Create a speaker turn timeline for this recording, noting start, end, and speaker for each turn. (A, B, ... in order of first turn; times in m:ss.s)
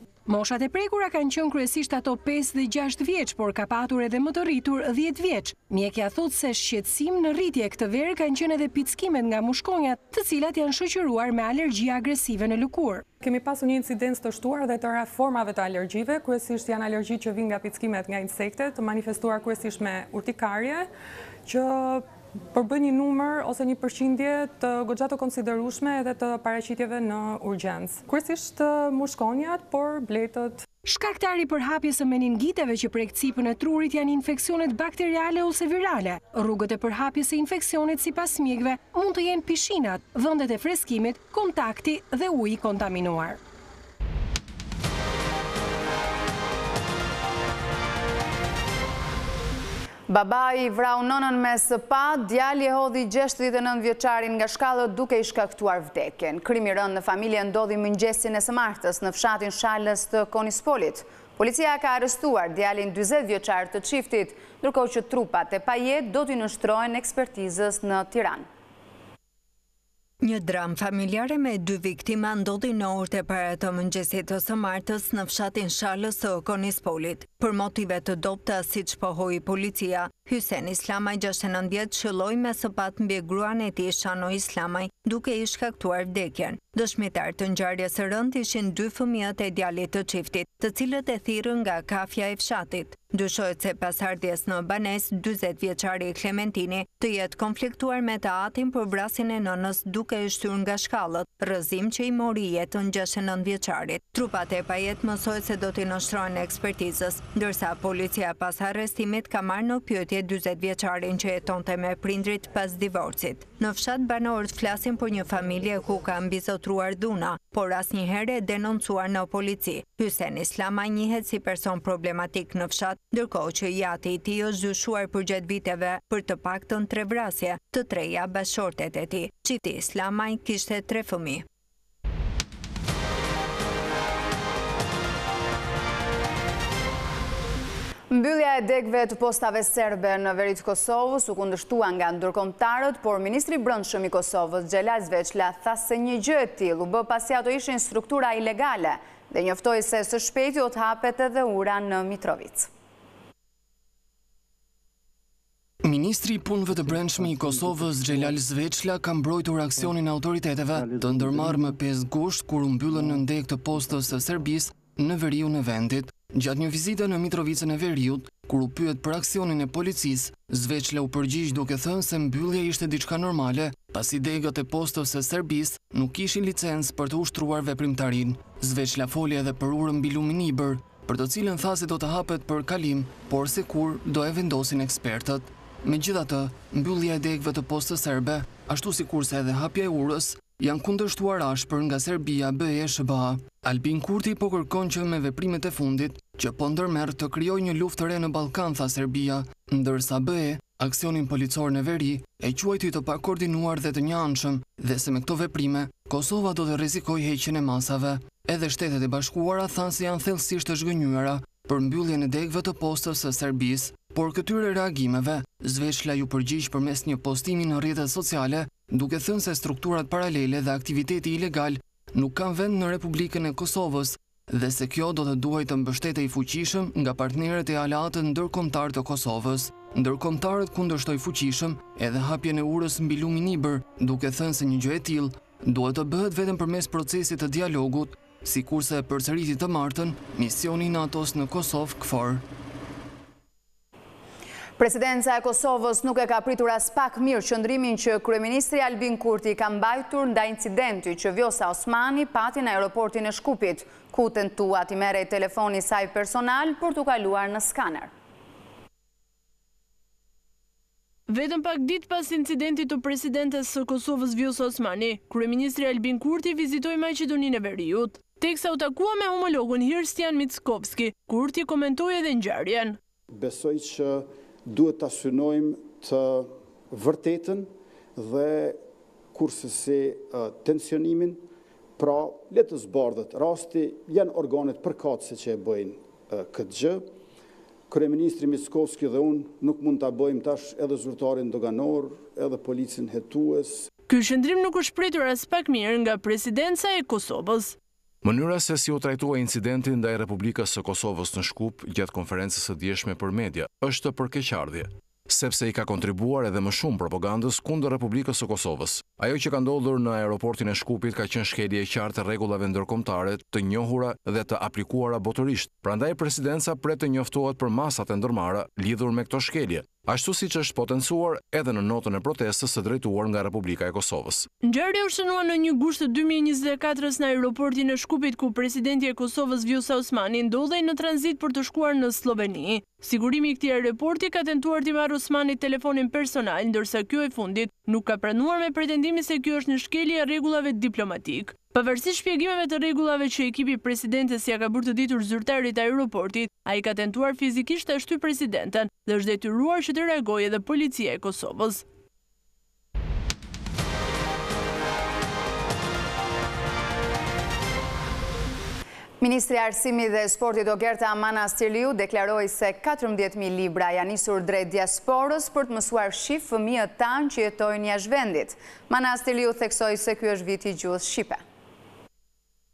0:00.3-0:13.0 A
0:13.2-0:20.9 B
0:21.5-0:30.6 B
0:30.8-0:43.4 A
0:50.1-1:08.5 C
1:10.2-2:11.4 D
2:18.1-2:32.7 C
2:35.8-4:02.4 E
4:04.8-4:18.1 C
4:21.3-4:33.0 F
4:33.3-4:38.8 G
4:39.3-4:41.4 G
4:42.0-4:47.0 G
4:47.9-4:53.9 G
4:54.1-4:57.8 F
4:58.2-5:24.5 H
5:24.6-5:51.8 F
5:59.2-6:11.4 C